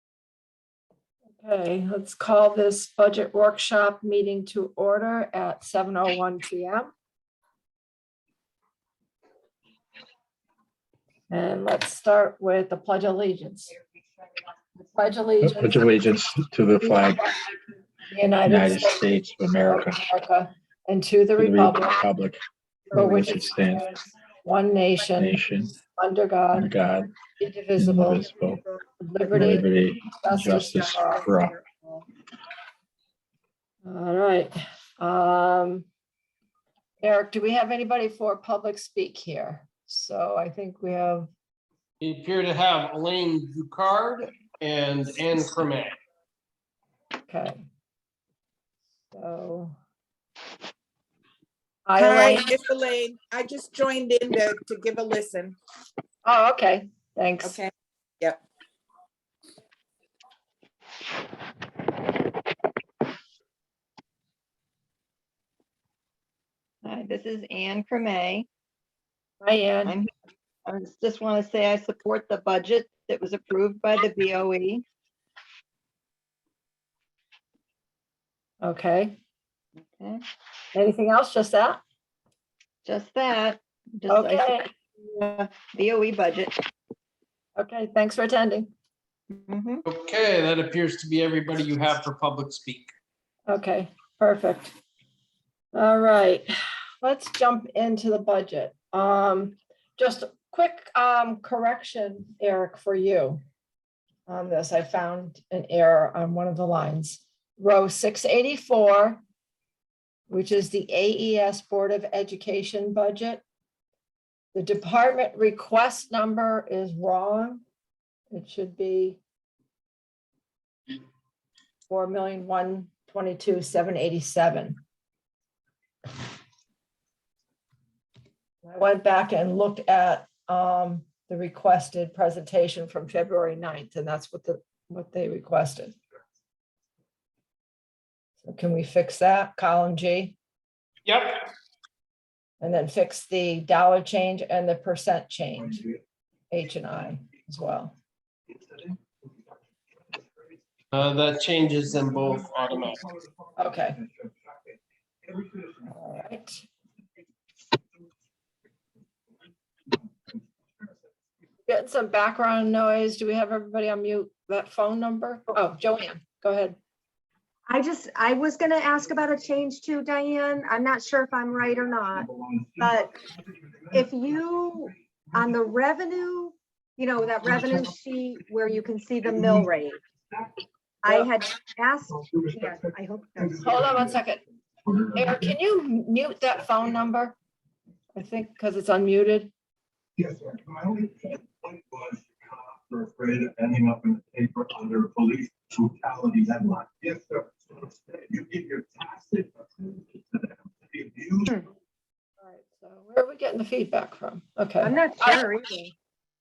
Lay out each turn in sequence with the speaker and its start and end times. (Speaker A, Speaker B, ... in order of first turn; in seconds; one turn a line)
Speaker A: 1.3-6.9
Speaker A: 11.3-13.8
Speaker A: 14.8-15.9
Speaker B: 15.4-17.3
Speaker A: 16.8-17.3
Speaker A: 18.1-22.0
Speaker B: 18.4-20.1
Speaker B: 21.4-22.4
Speaker B: 22.9-23.9
Speaker A: 22.9-23.5
Speaker A: 24.4-25.4
Speaker B: 25.1-25.8
Speaker A: 25.9-26.7
Speaker B: 26.5-27.1
Speaker A: 27.3-28.3
Speaker B: 27.8-28.6
Speaker A: 29.0-31.3
Speaker B: 29.3-31.5
Speaker C: 31.5-31.8
Speaker A: 33.8-35.9
Speaker A: 37.0-41.3
Speaker D: 42.0-45.9
Speaker A: 47.3-47.6
Speaker A: 49.1-49.8
Speaker A: 51.9-52.5
Speaker E: 51.9-55.6
Speaker A: 56.2-57.5
Speaker E: 57.4-58.4
Speaker F: 66.8-68.5
Speaker A: 69.4-69.9
Speaker F: 70.7-74.8
Speaker A: 78.6-79.2
Speaker F: 79.9-80.2
Speaker A: 80.7-81.8
Speaker F: 82.8-84.6
Speaker A: 84.1-84.7
Speaker F: 85.1-86.5
Speaker A: 87.6-88.7
Speaker F: 89.3-89.8
Speaker D: 89.8-92.9
Speaker A: 93.5-94.8
Speaker A: 95.7-96.5
Speaker A: 97.0-103.4
Speaker A: 104.3-109.2
Speaker A: 110.3-113.4
Speaker A: 114.5-117.6
Speaker A: 118.3-119.2
Speaker A: 121.9-124.8
Speaker A: 128.6-136.0
Speaker A: 138.4-140.3
Speaker D: 141.1-141.4
Speaker A: 142.6-145.8
Speaker G: 145.6-146.0
Speaker A: 146.5-147.9
Speaker G: 148.5-149.0
Speaker D: 150.9-153.0
Speaker G: 152.1-152.4
Speaker A: 153.6-154.0
Speaker G: 153.8-154.3
Speaker G: 155.2-155.8
Speaker A: 155.9-156.6
Speaker A: 161.7-166.8
Speaker C: 167.7-172.3
Speaker G: 172.1-174.1
Speaker C: 172.8-173.1
Speaker C: 173.9-180.0
Speaker G: 177.4-177.9
Speaker G: 179.2-179.7
Speaker G: 180.3-180.6
Speaker C: 181.0-183.7
Speaker G: 182.1-184.1
Speaker A: 183.6-184.4
Speaker G: 184.8-185.5
Speaker A: 185.1-187.3
Speaker A: 188.2-189.5
Speaker G: 190.2-201.5
Speaker A: 202.4-205.4
Speaker C: 204.8-205.9